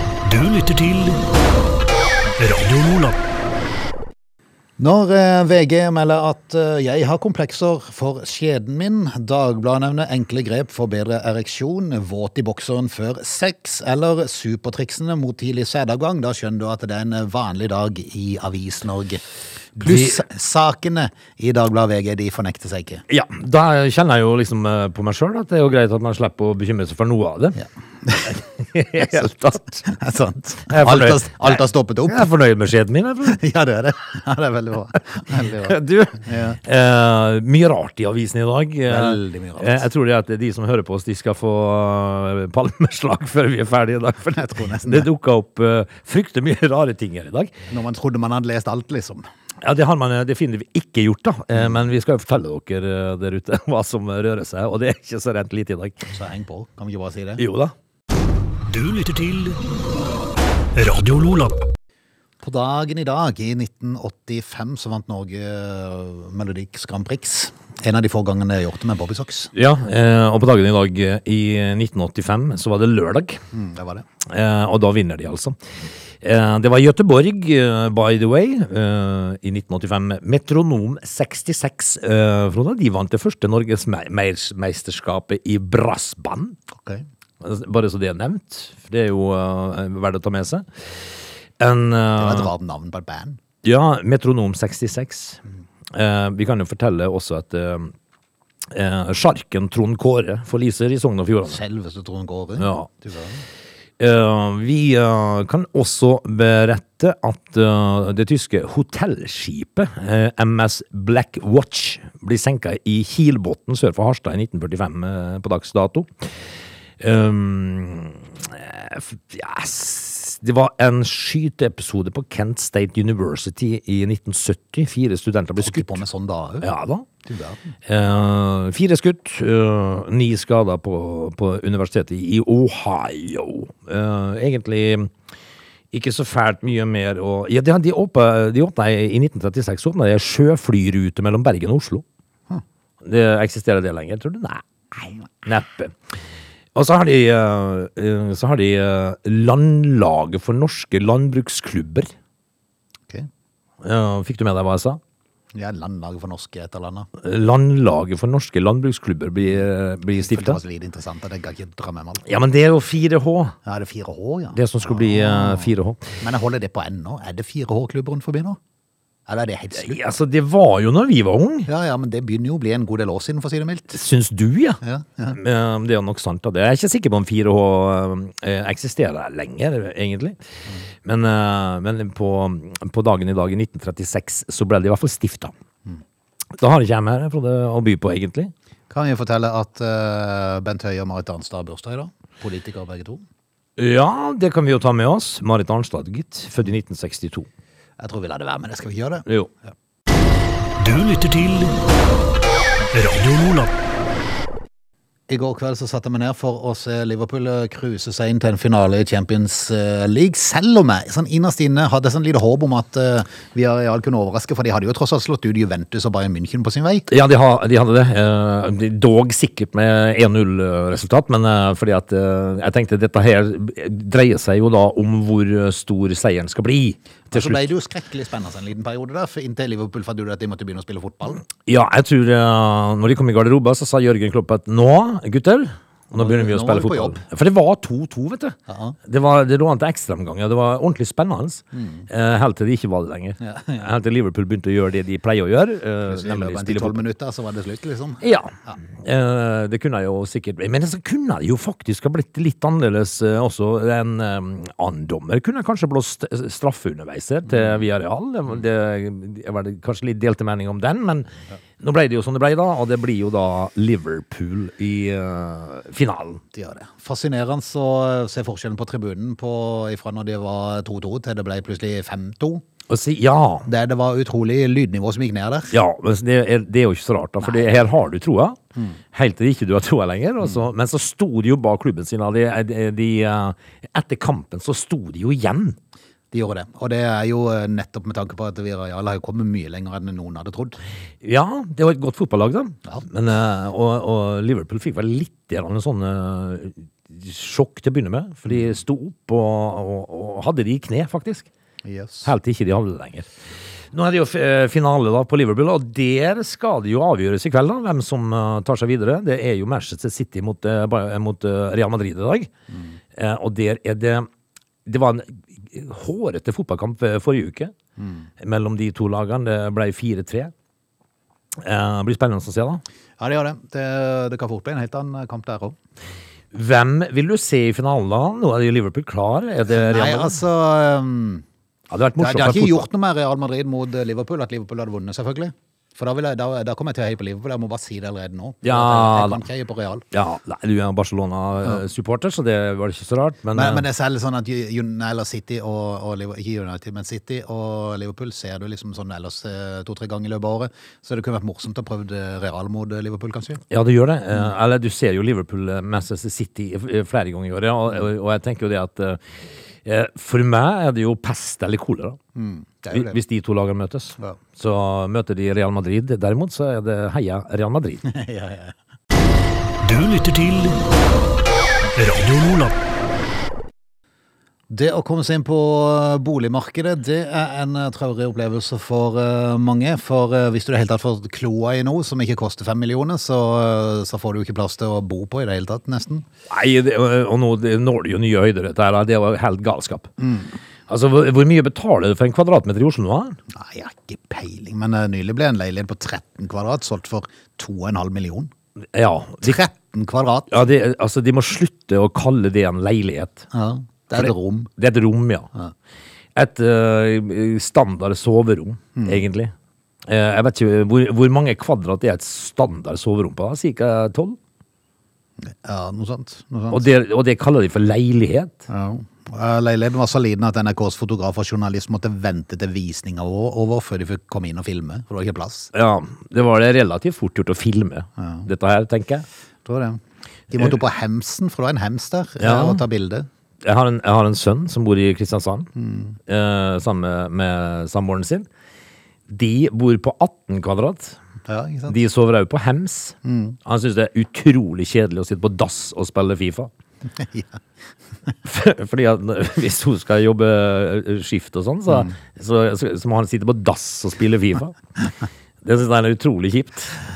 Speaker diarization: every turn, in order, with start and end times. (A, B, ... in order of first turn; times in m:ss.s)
0:00.2-0:01.2 A
0:02.4-0:03.2 A
0:04.8-0:19.2 B
0:19.8-0:23.0 B
0:19.8-0:20.2 C
0:23.1-0:27.6 C
0:27.6-0:28.3 B
0:28.3-0:29.8 C
0:29.8-0:32.3 B
0:30.7-0:33.4 C
0:33.3-0:36.6 B
0:35.3-0:47.5 C
0:38.9-0:39.9 B
0:44.3-0:45.1 B
0:47.7-0:49.3 B
0:49.6-0:56.1 C
0:56.1-0:57.4 B
0:57.4-0:57.7 C
0:58.7-0:59.6 A
1:00.8-1:01.6 A
1:02.4-1:09.5 B
1:09.5-1:13.4 C
1:13.5-1:14.1 B
1:14.2-1:15.6 C
1:16.2-1:26.6 C
1:26.7-1:27.0 B
1:27.4-1:30.8 C
1:31.6-1:32.5 C
1:32.2-1:33.4 B
1:33.6-1:35.4 C
1:35.9-1:37.9 C
1:38.7-1:41.6 C
1:41.4-1:43.4 B
1:42.6-1:42.9 C
1:44.0-1:56.3 C
1:57.0-2:06.0 C
2:05.6-2:06.7 B
2:06.6-2:07.1 C
2:07.2-2:07.7 B
2:07.8-2:15.1 C
2:15.9-2:22.0 C
2:23.0-2:25.9 C
2:26.8-2:32.1 C
2:33.8-2:35.0 C
2:35.5-2:37.1 B
2:37.2-2:40.6 C
2:39.4-2:42.3 B
2:42.2-2:43.5 C
2:43.6-2:48.6 B
2:44.5-2:46.0 C
2:49.3-2:50.0 B
2:49.7-2:51.7 C
2:51.7-2:54.0 B
2:53.9-2:54.8 C
2:54.8-2:55.4 B
2:55.3-3:00.4 C
3:01.0-3:05.5 C
3:06.6-3:08.5 C
3:08.9-3:13.2 B
3:13.8-3:17.5 C
3:18.0-3:19.2 B
3:20.8-3:21.8 A
3:22.9-3:23.7 A
3:25.3-3:37.1 B
3:37.1-3:47.7 C
3:47.3-3:51.4 B
3:51.5-4:07.0 C
3:56.2-3:57.2 B
3:58.7-3:59.0 B
4:01.7-4:02.1 B
4:03.4-4:03.8 B
4:06.0-4:08.8 B
4:08.2-4:21.3 C
4:21.8-4:26.4 C
4:26.5-4:32.6 B
4:32.9-4:33.7 C
4:33.6-4:35.7 B
4:35.7-4:38.6 C
4:37.4-4:37.8 B
4:39.1-4:45.8 C
4:46.3-4:50.8 B
4:51.2-5:01.5 C
5:01.8-5:02.3 B
5:02.2-5:03.3 C
5:03.9-5:12.5 C
5:13.1-5:14.3 C
5:14.8-5:17.7 C
5:18.0-5:18.3 B
5:18.4-5:20.5 C
5:21.6-5:22.8 C
5:23.2-5:25.8 B
5:26.5-5:30.4 C
5:29.7-5:31.4 B
5:31.9-5:32.8 C
5:32.2-5:40.0 B
5:38.6-5:39.4 C
5:40.1-5:43.8 C
5:43.5-5:53.6 B
5:53.7-5:59.2 C
5:59.8-6:02.2 C
6:02.4-6:03.2 B
6:02.9-6:08.1 C
6:08.0-6:08.7 B
6:09.8-6:10.8 A
6:11.9-6:12.7 A
6:14.7-6:26.2 B
6:26.5-6:30.1 C
6:30.2-6:30.5 B
6:30.9-6:33.4 C
6:33.5-6:38.5 B
6:38.9-6:39.6 C
6:39.4-6:40.5 B
6:40.5-6:43.5 C
6:43.5-6:44.7 B
6:44.1-6:45.5 C
6:46.3-6:49.5 C
6:49.0-6:49.2 B
6:50.0-6:54.4 C
6:55.4-6:56.8 B
6:56.7-6:58.6 C
6:58.7-7:05.7 B
7:05.7-7:09.2 C
7:08.2-7:08.4 B
7:09.6-7:13.3 B
7:12.4-7:12.8 C
7:13.6-7:15.7 C
7:15.8-7:16.2 B
7:16.3-7:18.5 C
7:19.3-7:21.2 C
7:21.5-7:22.0 B
7:21.9-7:26.7 C
7:23.2-7:23.6 B
7:27.2-7:27.6 B
7:28.4-7:34.8 C
7:35.6-7:37.0 C